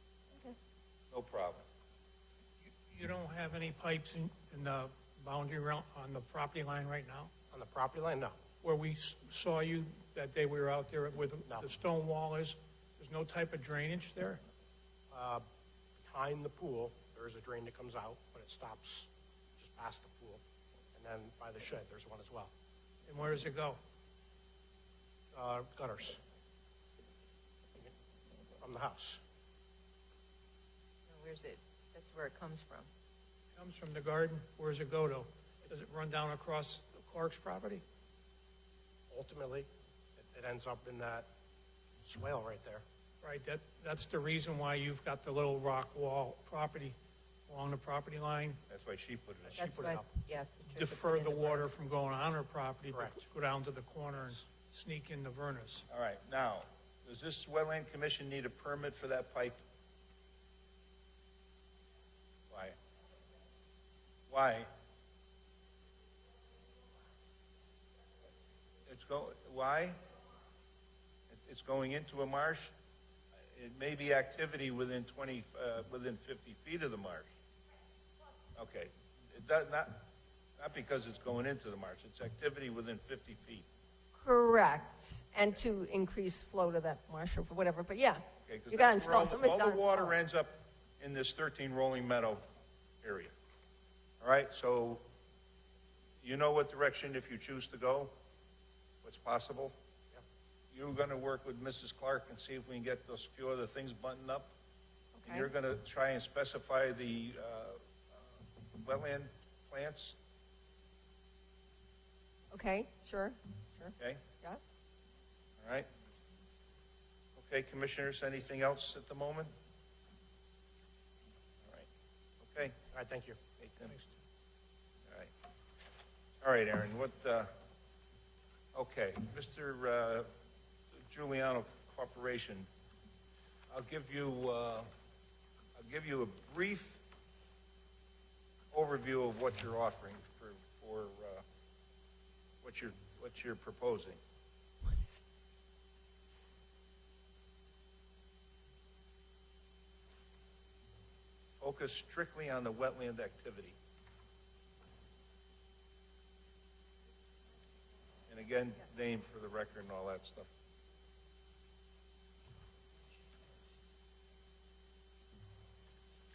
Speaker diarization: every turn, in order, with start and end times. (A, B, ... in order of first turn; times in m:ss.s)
0:01.1-0:01.6 A
0:02.9-0:07.3 B
0:07.5-0:08.4 C
0:08.6-0:14.4 B
0:11.4-0:11.7 C
0:15.1-0:15.4 C
0:16.0-0:20.4 C
0:20.9-0:22.5 C
0:23.1-0:23.8 B
0:25.3-0:26.2 C
0:28.6-0:29.2 C
0:31.1-0:32.9 D
0:33.6-0:37.8 B
0:39.1-0:41.3 C
0:42.0-0:42.8 C
0:43.2-0:47.0 B
0:47.5-0:48.6 B
0:48.7-0:49.7 A
0:49.5-0:50.1 C
0:49.6-0:51.7 D
0:50.7-0:55.8 B
0:52.9-0:53.3 C
0:55.9-0:59.6 A
1:02.5-1:02.8 A
1:04.3-1:04.7 A
1:08.9-1:10.0 A
1:11.3-1:12.7 A
1:13.5-1:17.3 A
1:18.6-1:23.7 A
1:24.1-1:30.1 E
1:28.4-1:32.4 A
1:33.0-1:33.3 A
1:34.2-1:35.0 A
1:36.2-1:38.1 A
1:39.0-1:39.7 A
1:40.7-1:44.5 A
1:45.2-1:45.5 E
1:45.2-1:50.2 A
1:52.5-1:54.6 E
1:55.6-1:55.9 A
1:57.4-1:59.5 A
2:02.4-2:02.8 A
2:02.9-2:03.4 C
2:03.6-2:04.0 A
2:06.4-2:07.5 A
2:08.7-2:10.3 A
2:11.1-2:12.7 A
2:13.7-2:14.9 A
2:15.8-2:17.0 A
2:18.7-2:21.4 A
2:22.6-2:24.2 A
2:31.6-2:33.8 A
2:38.3-2:40.5 A